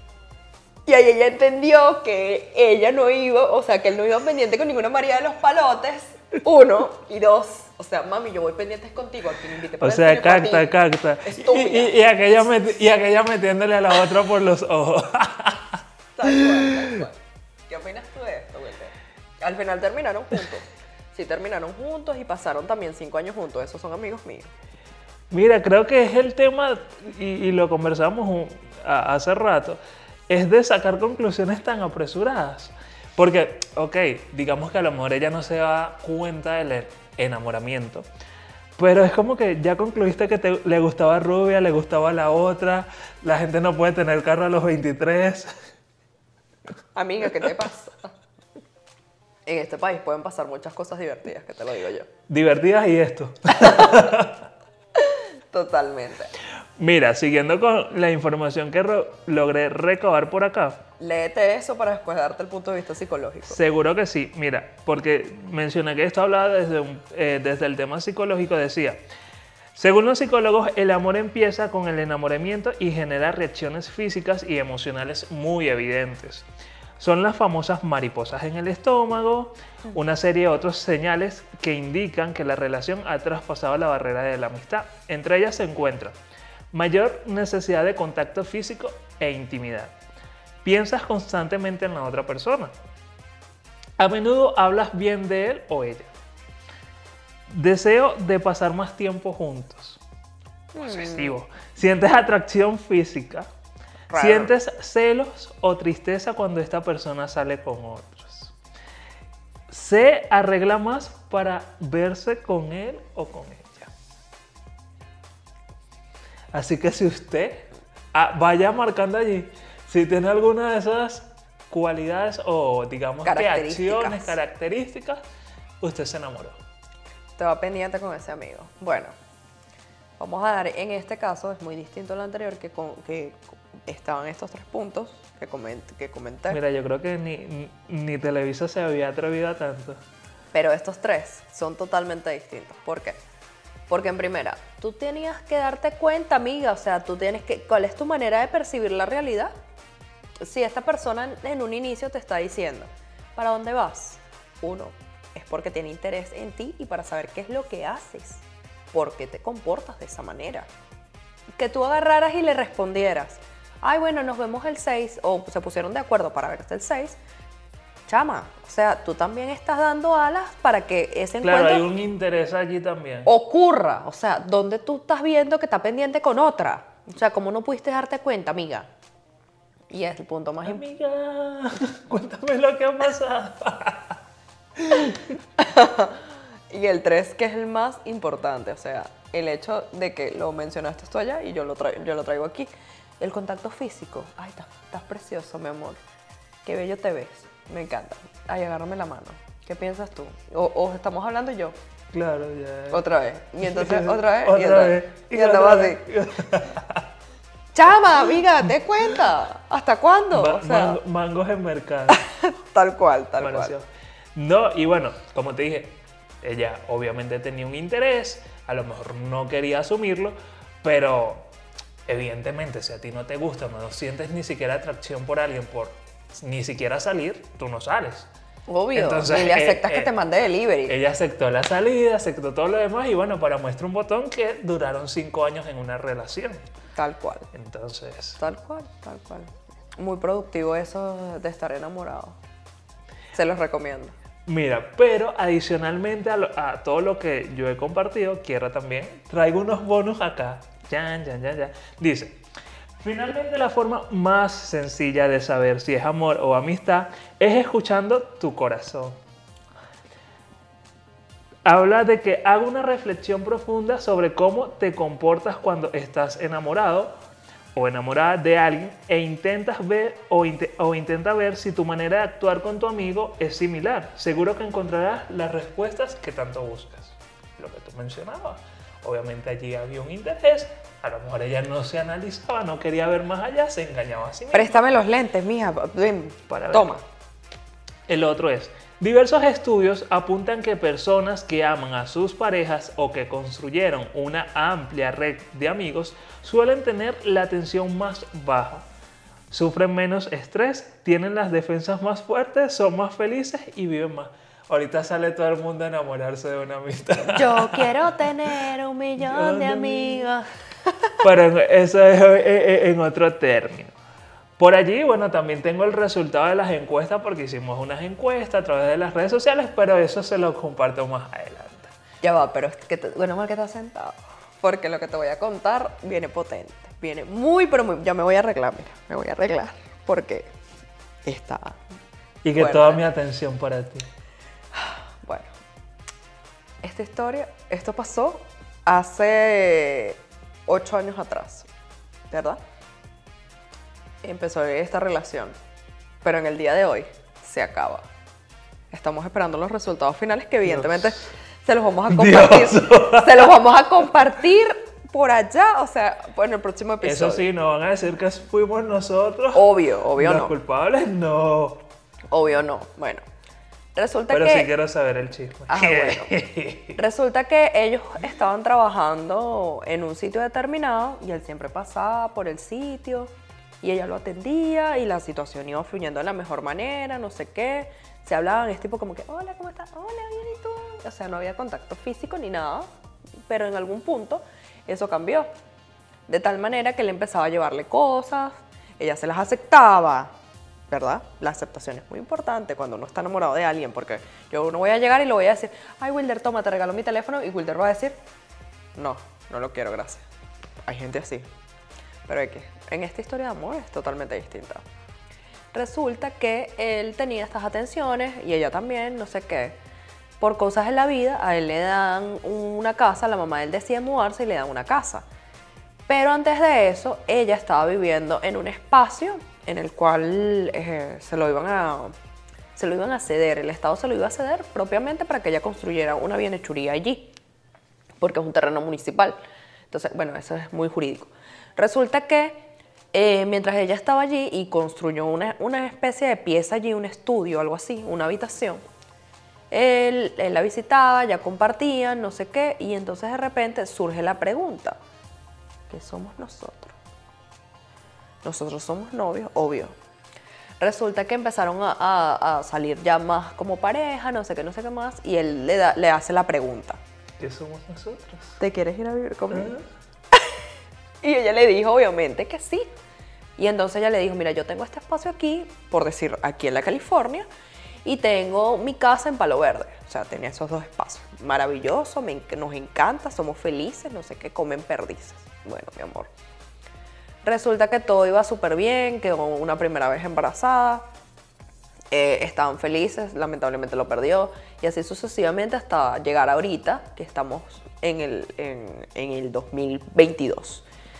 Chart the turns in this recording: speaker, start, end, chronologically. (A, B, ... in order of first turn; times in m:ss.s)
0:00.9-0:12.0 A
0:09.8-0:16.9 B
0:16.1-0:24.5 A
0:25.3-0:29.8 B
0:30.3-0:38.0 B
0:38.8-0:45.5 B
0:46.9-0:48.1 A
0:49.4-0:52.1 A
0:52.3-0:54.4 B
0:53.6-0:53.9 A
0:54.9-0:56.3 A
0:56.8-1:00.8 B
1:01.0-1:03.6 A
1:03.4-1:09.0 B
1:09.8-1:16.5 B
1:17.0-1:26.2 B
1:26.7-1:29.9 B
1:30.6-1:32.7 B
1:34.0-1:36.1 B
1:37.5-1:40.0 B
1:40.7-1:41.4 A
1:40.8-1:43.5 B
1:44.1-1:44.5 A
1:44.1-1:48.5 B
1:49.7-1:53.9 B
1:56.5-2:05.2 B
2:03.2-2:04.4 A
2:05.8-2:06.6 B
2:07.4-2:09.1 A
2:10.2-2:16.6 A
2:16.5-2:20.0 B
2:20.5-2:23.2 A
2:23.9-2:29.5 A
2:30.4-2:40.7 A
2:41.6-2:47.2 A
2:48.1-2:51.9 A
2:51.4-2:53.3 B
2:53.2-2:58.9 A
2:59.9-3:00.8 A
3:00.6-3:04.2 B
3:04.8-3:05.4 B
3:05.6-3:16.0 A
3:16.6-3:21.8 A
3:22.1-3:23.0 B
3:22.9-3:26.0 A
3:23.6-3:27.0 B
3:27.7-3:31.0 A
3:30.3-3:32.2 B
3:32.1-3:33.7 A
3:33.4-3:41.5 B
3:42.1-3:48.3 B
3:48.7-3:51.0 A
3:48.9-3:50.1 B
3:50.9-3:56.6 B
3:56.9-3:57.5 A
3:57.5-3:58.4 B
3:58.4-4:02.4 A
4:03.3-4:04.1 A
4:04.5-4:12.4 B
4:13.0-4:19.2 B
4:21.6-4:27.1 B
4:27.8-4:44.8 B
4:44.5-4:47.0 A
4:46.5-4:46.9 B
4:48.1-4:58.9 B
4:59.5-5:08.3 B
5:07.3-5:11.1 A
5:09.2-5:10.2 B
5:11.2-5:13.9 B
5:14.6-5:21.9 B
5:22.2-5:30.5 A
5:31.2-5:31.8 A
5:32.4-5:34.1 B
5:32.5-5:33.0 A
5:34.7-5:35.5 A
5:36.8-5:41.7 A
5:42.3-5:42.6 A
5:44.2-5:45.6 A
5:46.2-5:48.0 A
5:48.9-5:57.5 A
5:50.6-5:51.3 B
5:52.1-5:53.5 B
5:57.0-6:01.8 B
5:59.5-6:00.5 A
6:02.3-6:03.2 A
6:03.9-6:04.7 A
6:04.3-6:07.0 B
6:05.7-6:06.3 A
6:07.0-6:22.9 A
6:23.5-6:25.5 A
6:26.3-6:30.3 A
6:30.9-6:38.2 A
6:39.0-6:40.2 A
6:40.8-6:41.5 A
6:42.3-6:44.8 A
6:45.7-6:49.8 A
6:50.4-6:55.2 A
6:56.1-7:02.1 A
7:02.8-7:07.4 A
7:08.2-7:09.4 A
7:09.9-7:18.8 A
7:19.7-7:25.0 A
7:25.9-7:27.0 A
7:28.4-7:30.0 A
7:30.8-7:37.0 A
7:37.4-7:38.6 B
7:38.6-7:39.7 A
7:39.5-7:39.9 B
7:40.3-7:40.6 A
7:41.2-7:42.9 A
7:43.6-7:47.5 A
7:48.0-7:56.3 A
7:57.4-8:01.0 A
8:02.1-8:10.9 A